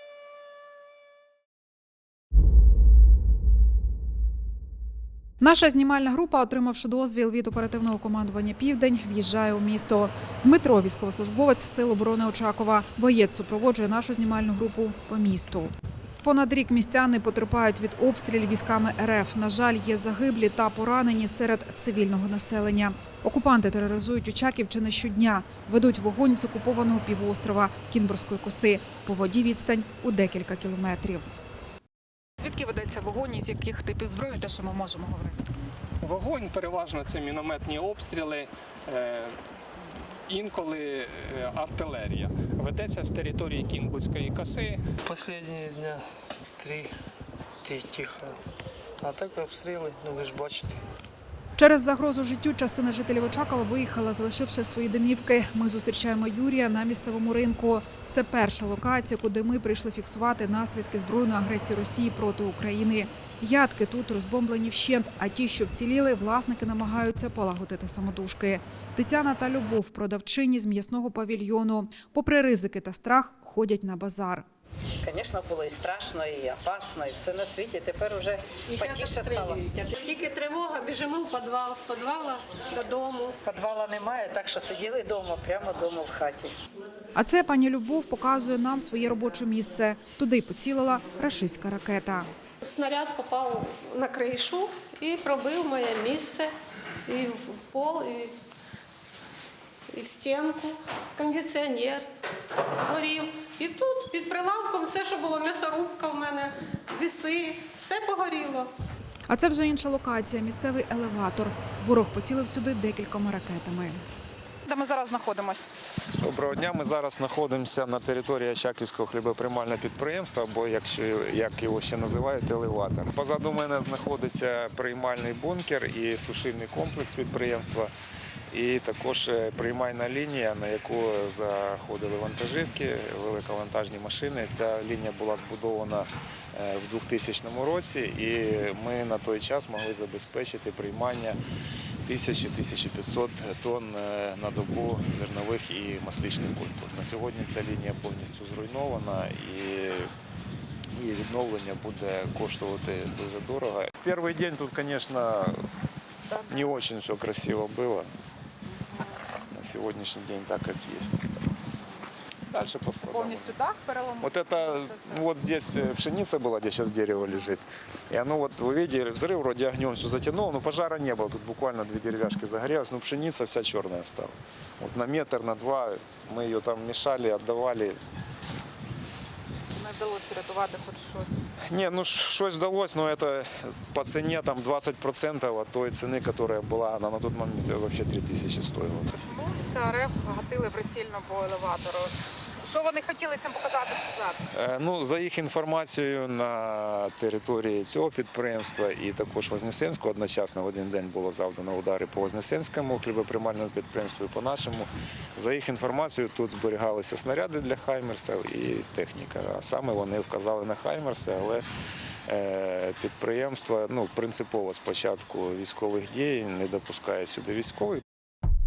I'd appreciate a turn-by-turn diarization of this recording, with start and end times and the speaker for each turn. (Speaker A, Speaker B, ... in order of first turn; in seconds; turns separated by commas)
Speaker A: 5.4-31.3, Speaker A: 32.4-35.4, Speaker B: 36.0-39.4, Speaker B: 40.3-44.9, Speaker C: 45.0-46.0, Speaker C: 46.6-47.0, Speaker C: 47.6-48.4, Speaker C: 49.0-50.8, Speaker A: 51.6-74.5, Speaker D: 75.0-79.6, Speaker E: 78.7-83.4, Speaker D: 83.5-86.5, Speaker A: 87.2-92.3, Speaker E: 92.6-96.5, Speaker E: 97.1-98.3, Speaker E: 99.9-108.7, Speaker A: 109.3-114.0, Speaker A: 114.7-115.7, Speaker F: 116.2-127.9, Speaker F: 128.5-141.4, Speaker F: 142.1-150.1, Speaker F: 150.9-155.7, Speaker F: 156.5-158.1, Speaker F: 159.5-161.2, Speaker F: 162.5-163.6, Speaker A: 163.1-164.2, Speaker F: 164.2-178.0, Speaker A: 179.8-181.3, Speaker F: 181.7-189.2, Speaker A: 189.2-192.1, Speaker A: 192.6-194.4, Speaker F: 194.5-211.7, Speaker F: 212.3-218.0